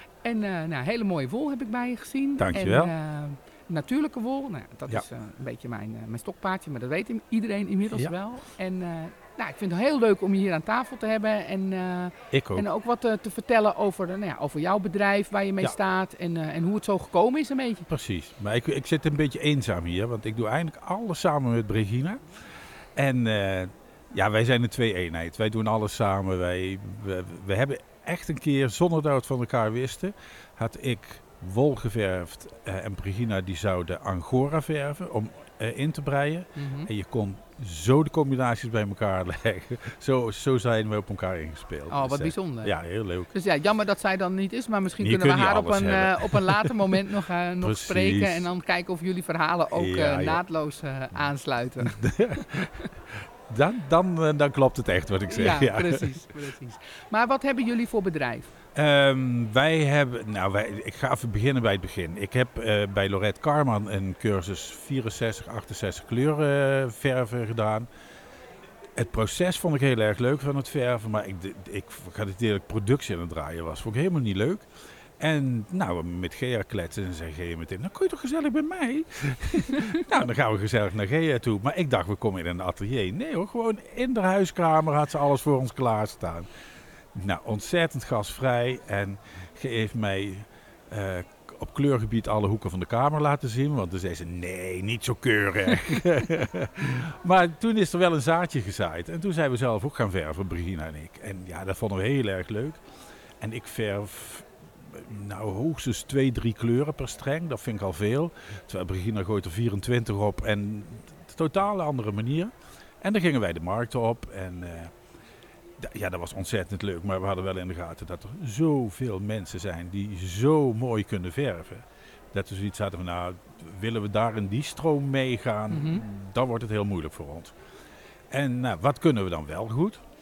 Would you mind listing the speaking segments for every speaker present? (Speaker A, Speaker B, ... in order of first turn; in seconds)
Speaker A: 0.2-17.9, 36.6-36.9, 41.9-42.7, 43.3-52.0, 55.3-58.5, 125.7-126.0
Speaker B: 2.4-2.9, 12.3-12.7, 17.9-43.3, 45.0-46.9, 47.6-48.5, 49.7-50.4, 51.8-56.2, 58.8-67.9, 69.0-74.7, 75.2-86.5, 87.1-102.8, 103.4-114.9, 115.8-127.6, 128.3-130.0